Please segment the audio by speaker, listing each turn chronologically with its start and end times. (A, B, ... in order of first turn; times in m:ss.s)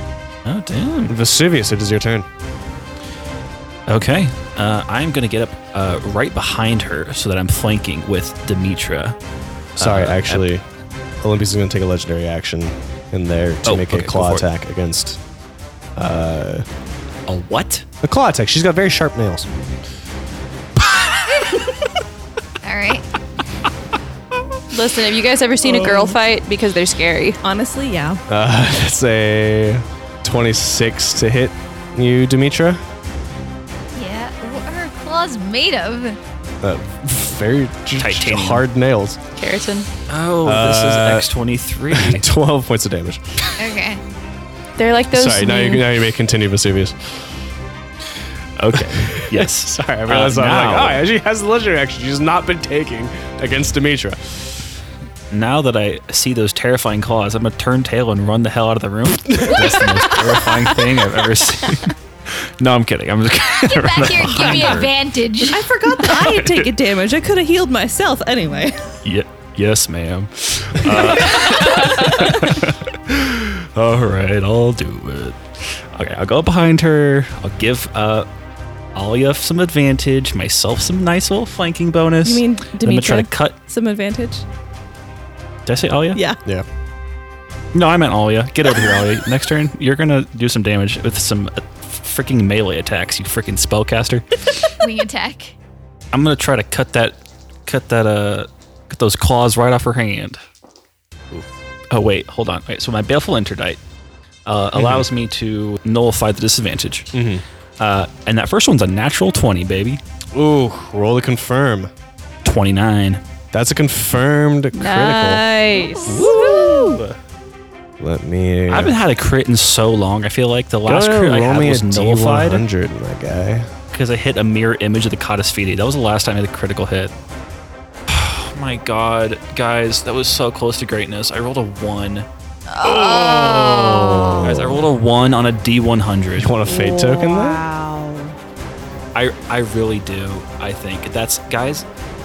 0:00.4-0:01.1 A
0:01.1-0:02.3 B
0:03.9-0:09.2 A
0:09.8-0:10.5 A
0:09.8-0:10.6 B
0:11.2-0:15.2 B
0:13.6-0:14.5 A
0:16.0-0:16.6 B
0:17.3-0:17.8 A
0:18.0-0:19.5 B
0:22.6-0:23.1 C
0:24.7-0:27.4 D
0:25.7-0:26.2 E
0:27.4-0:28.2 E
0:28.3-0:32.8 B
0:34.0-0:36.2 C
0:36.6-0:39.2 B
0:38.0-0:38.6 A
0:39.4-0:39.9 D
0:40.1-0:42.3 A
0:40.4-0:41.3 B
0:41.9-0:43.2 B
0:43.6-0:44.0 C
0:44.8-0:45.9 D
0:45.1-0:47.0 B
0:48.6-0:51.0 A
0:48.8-0:54.5 B
0:55.3-1:05.0 A
0:59.2-1:00.2 B
1:03.6-1:05.7 C
1:05.5-1:09.0 E
1:05.9-1:06.7 A
1:09.0-1:18.3 A
1:10.9-1:12.1 E
1:18.9-1:23.6 A
1:22.2-1:24.4 E
1:25.7-1:26.2 A
1:26.2-1:26.4 E
1:27.7-1:34.4 A
1:34.8-1:35.6 C
1:36.1-1:40.4 A
1:41.9-1:43.8 A
1:44.5-1:47.1 A
1:44.8-1:45.1 B
1:47.1-1:47.4 B
1:47.8-1:50.0 A
1:50.3-1:51.9 B
1:52.4-1:53.2 A
1:53.5-1:55.4 B
1:54.8-1:56.8 D
1:56.1-1:57.1 A
1:58.0-1:59.0 B
1:58.7-2:02.6 A
2:00.8-2:03.7 B
2:03.9-2:07.1 A
2:08.1-2:12.3 A
2:12.8-2:14.1 C
2:12.8-2:14.8 B
2:14.4-2:16.6 A
2:16.4-2:17.6 B
2:16.8-2:18.0 D
2:19.1-2:21.9 A